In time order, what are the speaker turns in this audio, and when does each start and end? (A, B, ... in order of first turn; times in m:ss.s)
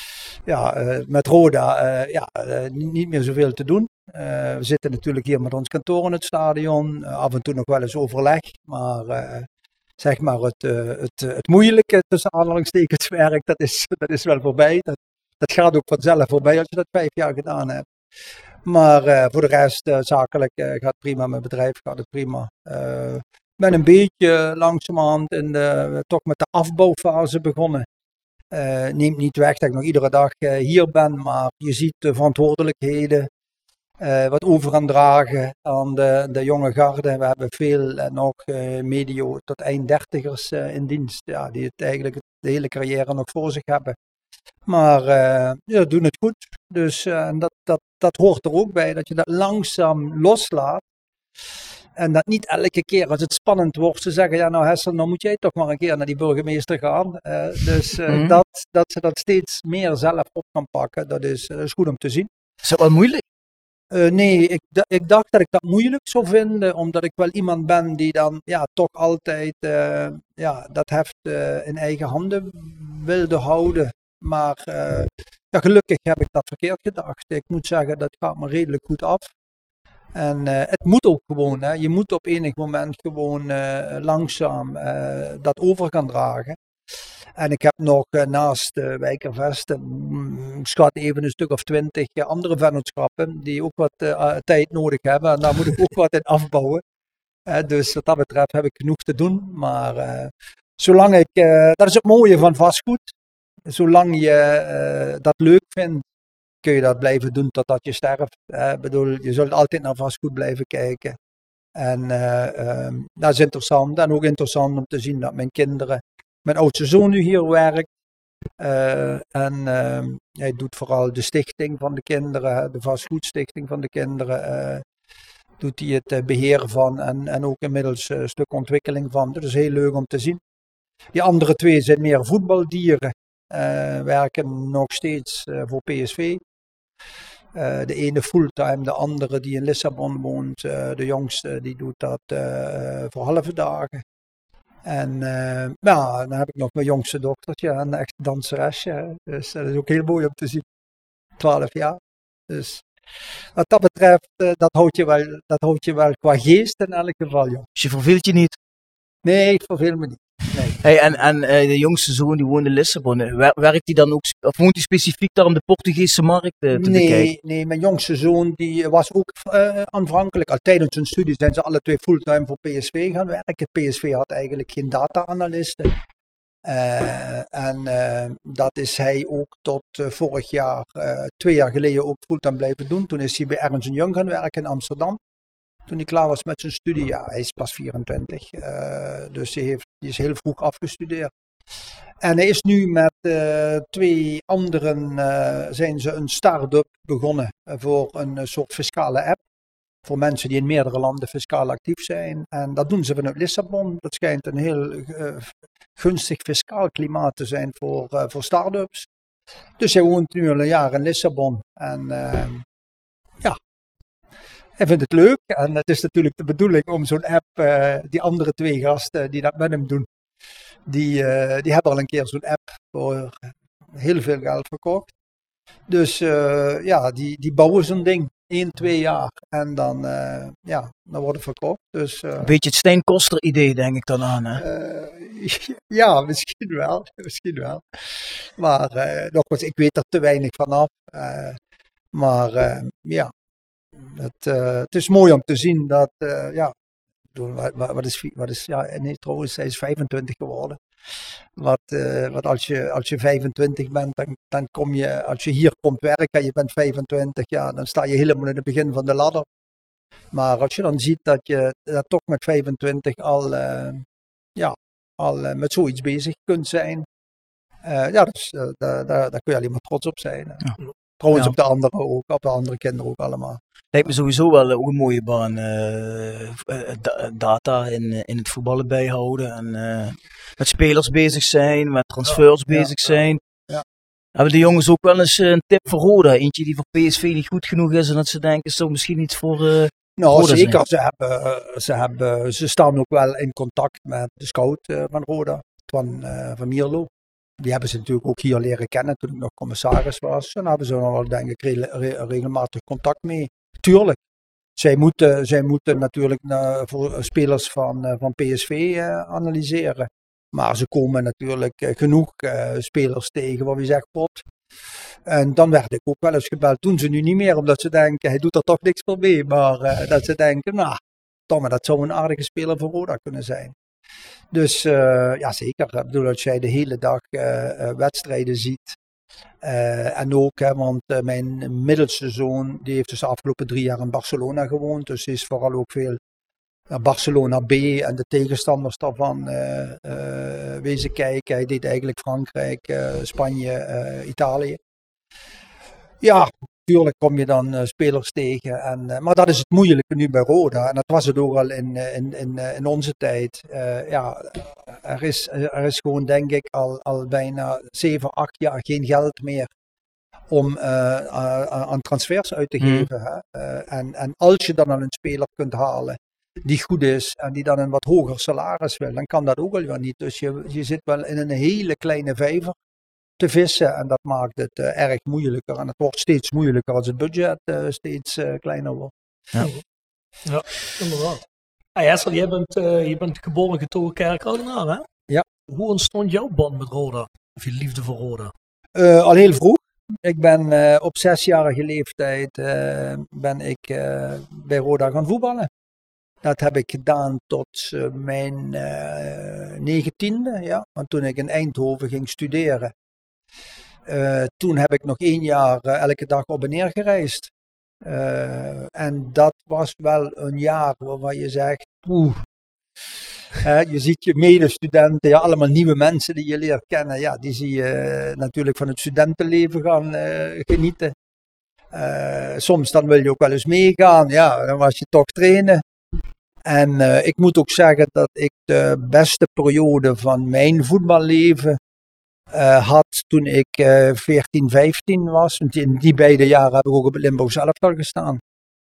0:00.4-0:09.5 A
0:10.0-0:17.8 A
0:18.6-0:27.9 A
0:28.5-0:33.3 A
0:34.0-0:44.0 A
0:44.6-0:50.8 A
0:52.0-1:02.3 A
0:58.1-0:58.4 B
1:02.6-1:03.2 B
1:03.9-1:19.3 A
1:20.1-1:26.6 A
1:27.4-1:36.8 A
1:37.4-1:43.1 A
1:43.6-1:46.0 A
1:46.6-1:51.2 A
1:51.8-1:57.9 A
1:58.6-2:04.8 A
2:05.6-2:10.4 A
2:11.1-2:16.4 A
2:17.5-2:24.0 A
2:24.8-2:30.6 A
2:31.4-2:32.8 A
2:33.5-2:37.6 A
2:37.8-2:38.6 B
2:39.2-2:40.8 A
2:40.8-2:47.3 B
2:46.7-2:55.9 A
2:56.6-3:05.2 A
3:05.9-3:11.3 A
3:12.2-3:19.4 A
3:20.0-3:29.1 A
3:29.8-3:32.6 A
3:34.8-3:40.1 A
3:40.8-3:45.1 A
3:45.9-3:52.5 A
3:52.4-3:54.6 B
3:54.6-4:01.6 A
4:02.1-4:03.3 A
4:04.0-4:06.7 A
4:07.3-4:10.8 A
4:11.6-4:19.5 A
4:20.3-4:27.1 A
4:27.8-4:30.6 A
4:31.2-4:33.6 A
4:33.9-4:43.4 B
4:42.7-4:43.2 A
4:44.3-4:50.8 B
4:50.2-5:04.2 A
5:04.8-5:14.4 A
5:15.2-5:21.0 A
5:21.5-5:23.7 A
5:24.5-5:29.0 A
5:29.6-5:36.2 A
5:36.9-5:44.8 A
5:46.2-5:59.7 A
6:00.5-6:12.8 A
6:02.8-6:03.1 B
6:13.4-6:19.1 A
6:20.4-6:21.4 C
6:22.0-6:25.0 C
6:25.7-6:28.5 C
6:28.9-6:35.7 A
6:36.4-6:42.9 A
6:44.1-6:47.5 A
6:48.0-6:52.4 A
6:53.6-7:01.1 A
7:01.9-7:05.8 A
7:06.6-7:11.8 A
7:12.5-7:18.4 A